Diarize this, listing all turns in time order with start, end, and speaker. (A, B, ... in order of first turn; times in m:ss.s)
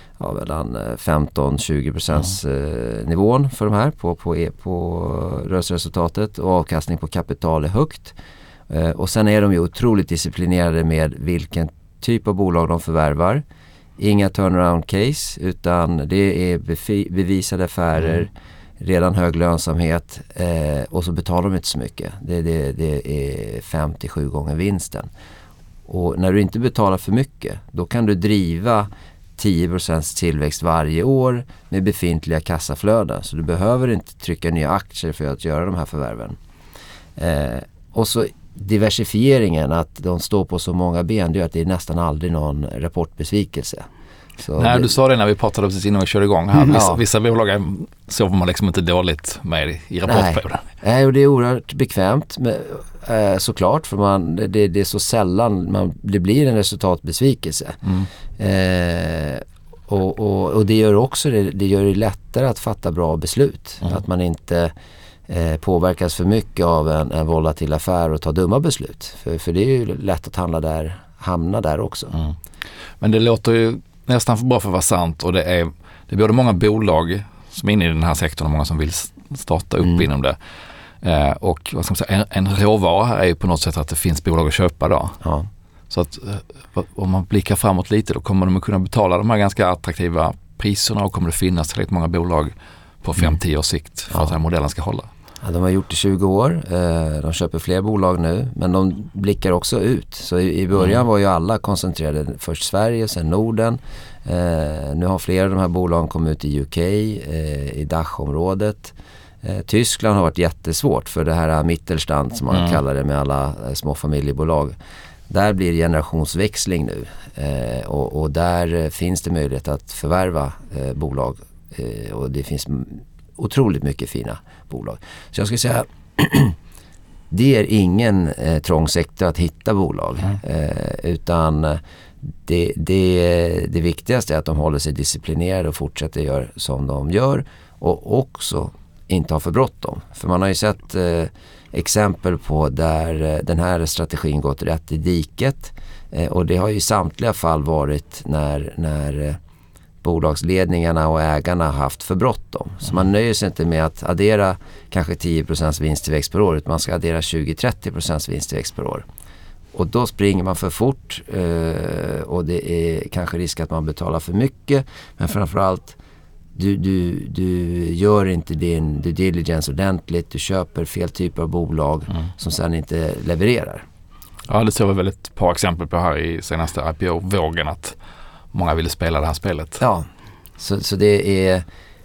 0:00.2-0:08.2 A
0:08.7-0:13.4 A
0:14.0-0:25.1 A
0:25.9-0:36.4 A
0:37.2-0:43.9 A
0:44.4-0:44.9 A
0:44.6-0:50.6 B
0:46.6-0:47.0 A
0:50.1-0:57.8 A
0:58.4-1:04.7 A
1:05.3-1:12.2 A
1:13.0-1:20.4 B
1:21.0-1:25.2 B
1:25.2-1:25.5 A
1:25.9-1:35.1 B
1:35.4-1:54.8 A
1:55.3-2:06.6 A
2:07.3-2:11.8 A
2:12.4-2:29.4 A
2:30.0-2:39.0 A
2:39.7-2:46.0 A
2:46.6-2:53.8 A
2:54.5-2:58.0 B
2:58.5-2:59.8 B
2:59.8-3:00.1 A
3:00.6-3:01.6 A